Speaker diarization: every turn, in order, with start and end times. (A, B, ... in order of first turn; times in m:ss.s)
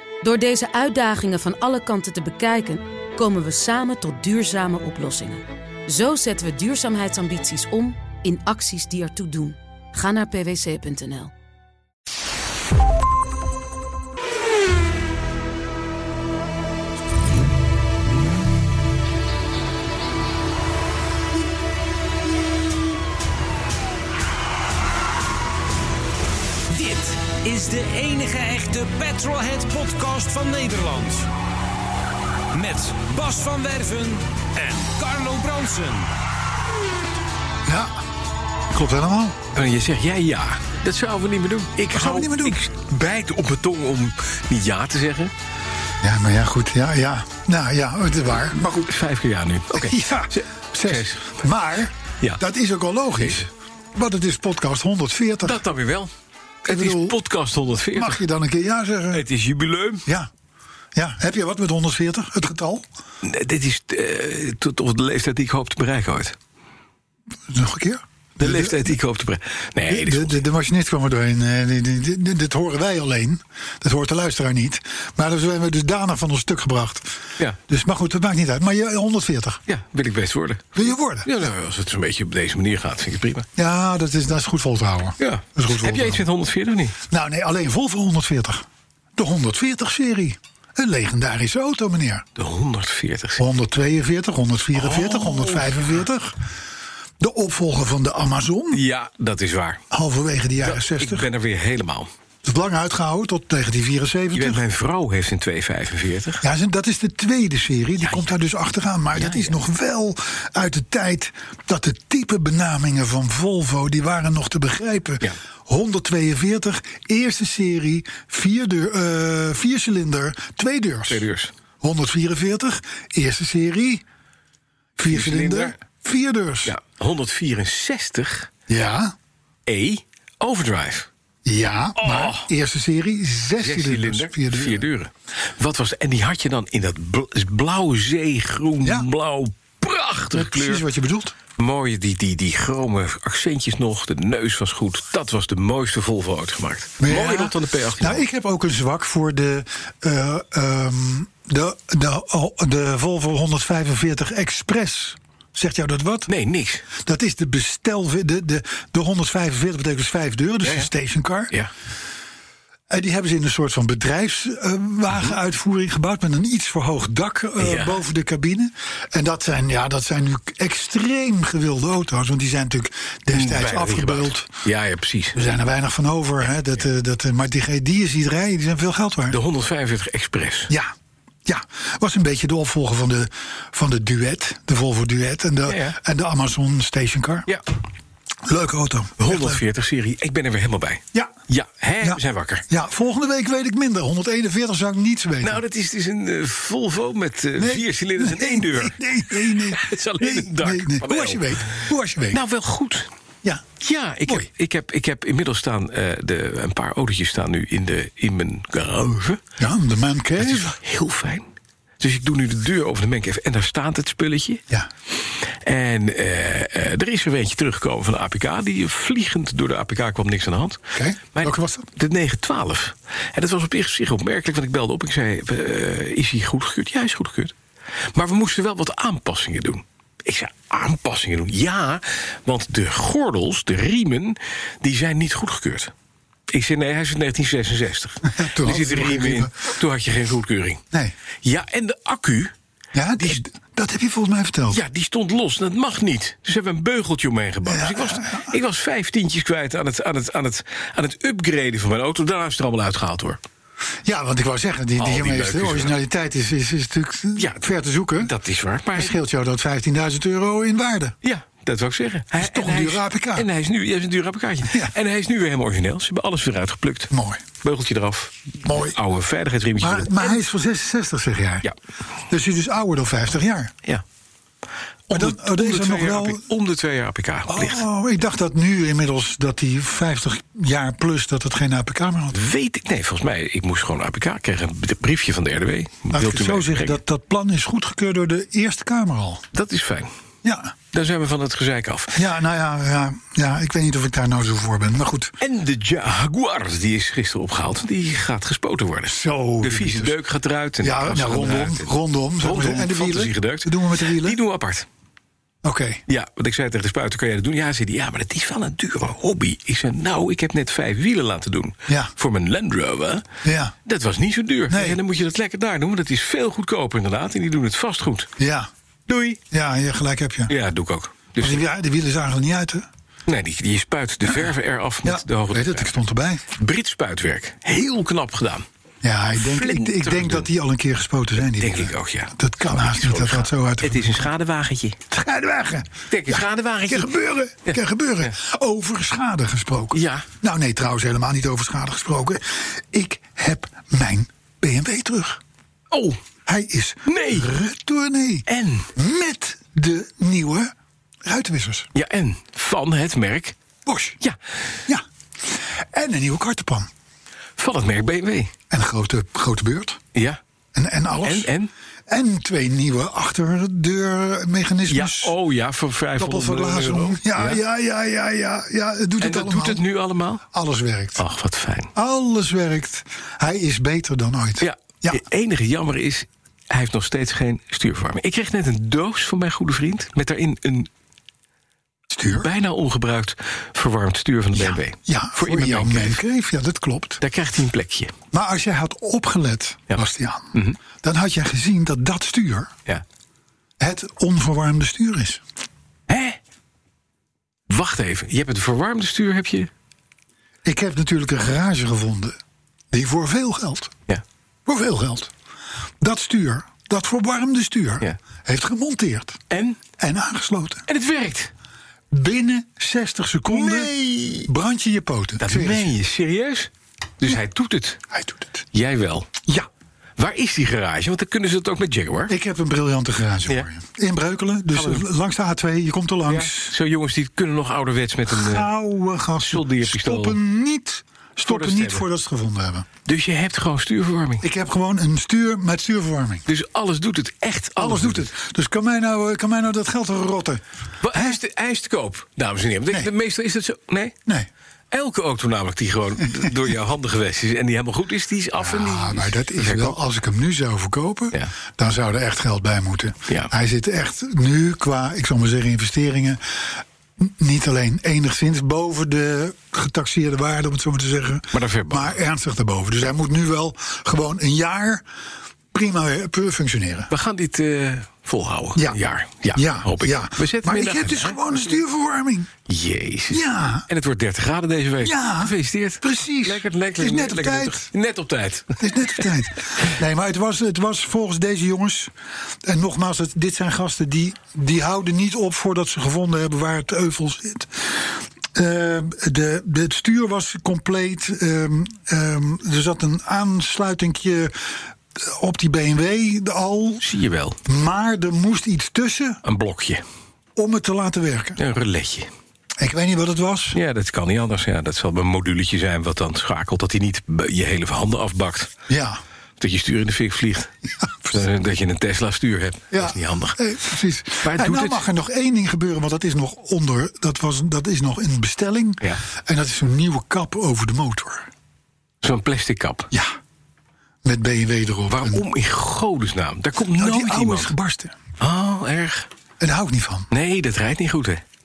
0:00.2-0:11.3 A
0:26.7-0:31.3 B
0:32.5-0:36.1 B
0:37.7-0:38.0 C
0:38.7-0:39.4 C
0:39.5-0:45.3 D
0:41.9-0:42.6 C
0:46.0-0:49.0 C
0:48.9-0:51.4 D
0:49.7-0:55.6 C
0:53.2-0:53.5 D
0:55.4-0:56.1 D
0:56.6-0:58.2 D
0:56.7-0:57.2 C
0:57.9-0:59.2 C
0:59.1-1:00.1 D
1:01.0-1:02.8 C
1:03.2-1:06.4 D
1:07.5-1:09.0 C
1:08.4-1:10.4 D
1:09.9-1:19.6 C
1:19.7-1:23.5 D
1:20.8-1:21.3 C
1:23.6-1:26.3 C
1:25.2-1:27.0 D
1:27.1-1:28.6 C
1:29.2-1:32.3 C
1:32.4-1:33.4 D
1:33.4-1:36.4 C
1:34.8-1:35.9 D
1:37.2-1:38.8 C
1:38.7-1:39.8 D
1:39.9-1:41.3 C
1:40.6-1:42.1 D
1:42.4-1:44.6 C
1:44.3-1:46.4 D
1:46.4-2:01.2 C
1:48.0-1:48.3 D
1:49.2-1:49.6 D
2:01.1-2:01.5 D
2:01.8-2:04.0 C
2:05.0-2:06.8 C
2:05.1-2:05.8 D
2:06.7-2:08.5 D
2:08.7-2:09.1 C
2:09.7-2:11.1 D
2:11.4-2:14.8 C
2:12.0-2:12.5 D
2:13.6-2:20.8 D
2:18.8-2:19.1 C
2:20.3-2:21.4 C
2:21.6-2:28.2 D
2:27.0-2:36.3 C
2:36.3-2:36.9 D
2:37.0-2:41.5 C
2:40.6-2:40.9 D
2:42.9-2:54.5 C
2:47.6-2:48.0 D
2:53.3-2:55.4 D
2:55.3-2:59.4 C
2:59.3-3:00.7 D
3:01.4-3:07.5 C
3:05.7-3:06.0 D
3:08.4-3:09.6 C
3:09.2-3:12.6 D
3:12.0-3:15.6 C
3:15.4-3:23.1 D
3:17.6-3:22.4 C
3:23.4-3:23.7 C
3:23.8-3:29.4 D
3:29.6-3:30.8 C
3:30.4-3:31.5 D
3:32.0-3:34.6 D
3:35.5-3:40.8 D
3:41.0-3:41.9 C
3:41.3-3:47.5 D
3:48.1-3:55.9 D
3:56.5-4:00.8 D
3:58.3-3:59.5 C
4:01.4-4:02.5 D
4:02.9-4:04.8 C
4:04.7-4:13.4 D
4:07.6-4:08.5 C
4:14.1-4:18.3 C
4:15.0-4:16.0 D
4:17.4-4:17.6 D
4:18.2-4:19.2 D
4:18.9-4:21.2 C
4:21.2-4:30.4 D
4:22.4-4:23.5 C
4:27.1-4:27.4 C
4:28.6-4:29.0 C
4:29.8-4:31.7 C
4:32.3-4:33.7 C
4:35.1-4:37.8 D
4:35.1-4:36.4 C
4:37.5-4:42.4 C
4:42.3-4:47.0 D
4:46.1-4:49.5 C
4:49.5-4:50.1 D
4:50.4-4:50.8 C
4:50.9-4:52.3 D
4:52.2-4:55.3 C
4:55.4-5:04.9 D
4:59.1-5:00.2 C
5:00.8-5:04.4 C
5:05.6-5:06.0 C
5:06.1-5:13.3 D
5:11.9-5:12.1 C
5:13.4-5:13.7 C
5:13.9-5:18.3 D
5:14.7-5:15.0 C
5:18.4-5:18.7 C
5:19.1-5:19.4 D
5:19.5-5:20.5 C
5:20.5-5:21.6 D
5:21.4-5:22.9 C
5:23.3-5:25.9 D
5:25.0-5:26.5 C
5:26.5-5:28.6 D
5:29.0-5:34.1 C
5:29.4-5:30.5 D
5:31.4-5:35.0 D
5:35.1-5:45.4 C
5:36.1-5:37.1 D
5:37.7-5:38.3 D
5:39.9-5:40.3 D
5:45.9-5:46.2 D
5:46.5-5:50.7 C
5:47.1-5:47.5 D
5:48.5-5:48.9 D
5:51.2-5:51.9 C
5:52.0-5:53.6 D
5:53.9-5:54.2 C
5:54.9-5:56.9 C
5:57.6-5:58.5 D
5:58.7-6:00.0 C
6:00.1-6:00.4 D
6:00.8-6:01.5 C
6:01.2-6:01.7 D
6:02.1-6:05.3 C
6:04.9-6:07.6 D
6:06.2-6:09.8 C
6:09.2-6:10.4 D
6:10.5-6:11.2 C
6:11.2-6:11.9 D
6:12.0-6:15.2 C
6:14.6-6:20.9 D
6:22.1-6:22.5 C
6:22.3-6:26.2 D
6:24.6-6:27.2 C
6:27.2-6:28.1 D
6:28.3-6:32.7 C
6:33.8-6:35.4 C
6:36.1-6:36.4 D
6:37.7-6:39.7 D
6:40.6-6:42.4 C
6:42.9-6:44.0 C
6:44.7-6:45.3 C
6:46.0-6:49.4 C
6:49.5-6:49.8 D
6:50.0-6:50.9 C
6:50.9-6:51.5 D
6:52.1-6:55.9 C
6:53.5-6:54.5 D
6:55.4-6:58.0 D
6:58.1-6:58.6 C
6:58.7-6:59.3 D
7:00.2-7:02.3 D
7:02.3-7:06.8 C
7:04.7-7:05.0 D
7:06.3-7:08.7 D
7:08.3-7:12.9 C
7:09.4-7:10.4 D
7:11.4-7:12.1 D
7:13.1-7:14.5 D
7:14.4-7:16.4 C
7:16.5-7:18.3 D
7:17.8-7:21.4 C
7:21.0-7:24.1 D
7:24.9-7:30.0 D
7:28.6-7:45.0 C
7:41.5-7:42.2 D
7:45.7-7:47.1 C
7:47.1-7:51.4 D
7:49.5-7:52.5 C
7:52.7-7:59.3 D
7:53.3-7:53.9 C
7:55.0-7:57.9 C
7:58.8-8:02.1 C
8:02.6-8:17.0 C
8:17.0-8:17.6 D
8:17.7-8:19.4 C
8:19.4-8:20.0 D
8:20.6-8:21.6 C
8:21.6-8:22.3 D
8:22.8-8:23.8 C
8:23.7-8:28.7 D
8:28.9-8:29.2 C
8:29.6-8:30.7 D
8:31.0-8:31.3 C
8:31.3-8:33.6 D
8:32.9-8:41.5 C
8:34.4-8:35.0 D
8:42.2-8:43.1 D
8:43.1-8:43.4 C
8:44.2-8:45.4 C
8:45.1-8:47.7 D
8:47.0-8:48.2 C
8:48.4-8:49.3 D
8:49.6-8:50.3 C
8:50.3-8:51.4 D